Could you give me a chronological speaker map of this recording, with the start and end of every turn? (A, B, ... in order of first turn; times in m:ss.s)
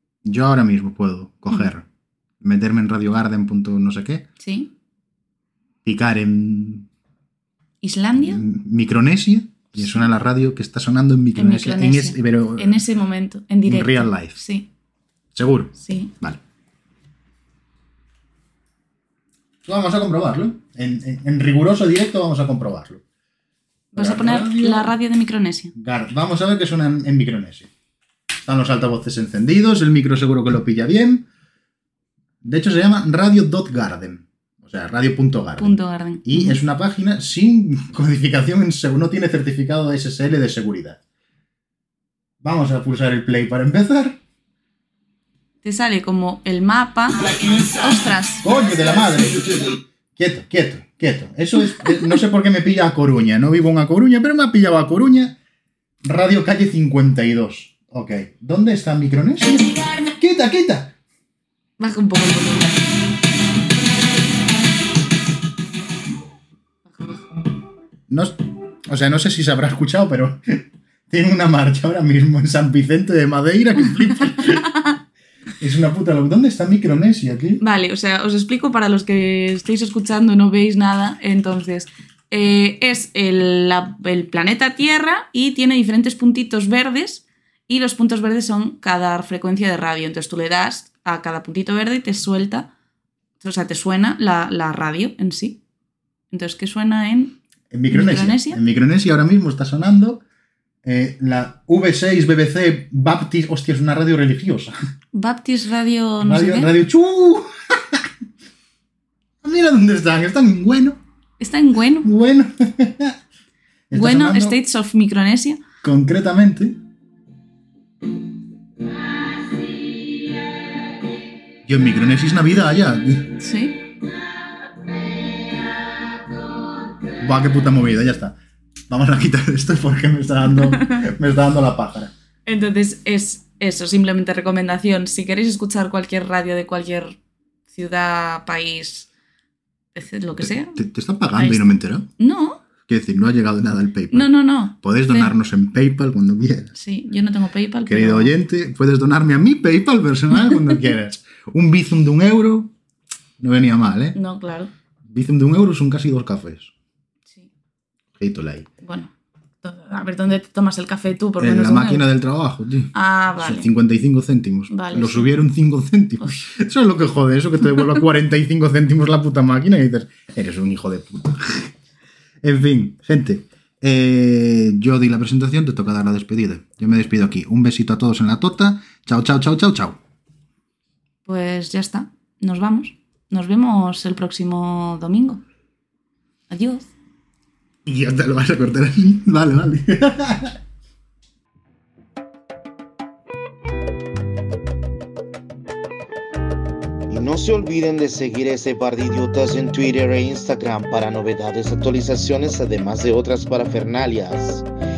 0:00.2-0:01.8 A
0:02.4-0:04.3 A
0:04.4-0:04.7 B
0:05.8-0:06.9 A
0:07.8-0:08.4 B
0:08.2-0:12.8 A
0:09.7-0:10.1 B
0:11.4-0:14.7 B
0:13.6-0:14.4 A
0:15.3-0:16.4 A
0:15.8-0:16.1 B
0:19.6-0:23.0 A
0:23.9-0:25.7 B
0:24.0-0:24.9 A
0:25.8-0:27.7 A
0:28.4-0:31.2 A
0:32.4-0:41.0 A
0:35.6-0:36.6 B
0:42.4-0:44.2 A
0:45.6-0:48.4 B
0:48.4-0:55.4 A
0:56.0-1:00.9 A
1:01.8-1:02.9 B
1:06.9-1:07.2 B
1:08.1-1:14.7 A
1:15.6-1:17.6 A
1:17.6-1:32.7 B
1:33.4-1:35.6 B
1:36.3-1:37.3 B
1:37.7-1:40.2 A
1:37.9-1:38.6 B
1:40.8-1:44.7 A
1:45.1-1:46.7 B
1:46.2-1:48.1 A
1:49.4-1:51.0 A
1:51.4-1:52.1 B
1:52.0-1:53.2 A
1:53.9-1:54.6 A
1:53.9-1:55.6 B
1:55.8-1:56.8 A
2:01.6-2:03.4 A
2:03.4-2:03.9 B
2:07.2-2:08.4 A
2:08.9-2:12.1 A
2:10.6-2:11.0 B
2:12.4-2:17.2 B
2:17.7-2:19.1 B
2:19.9-2:20.8 B
2:20.4-2:22.1 A
2:21.3-2:21.6 B
2:22.2-2:22.6 B
2:22.8-2:26.7 A
2:24.1-2:25.3 B
2:26.7-2:28.3 B
2:27.9-2:32.7 A
2:33.4-2:34.2 A
2:34.1-2:34.7 B
2:35.1-2:36.7 A
2:38.2-2:38.7 A
2:38.8-2:42.1 B
2:41.4-2:51.7 A
2:42.9-2:43.7 B
2:44.7-2:45.3 B
2:52.4-3:00.0 A
3:01.2-3:05.4 B
3:06.5-3:06.9 B
3:07.8-3:10.6 A
3:17.1-3:24.6 C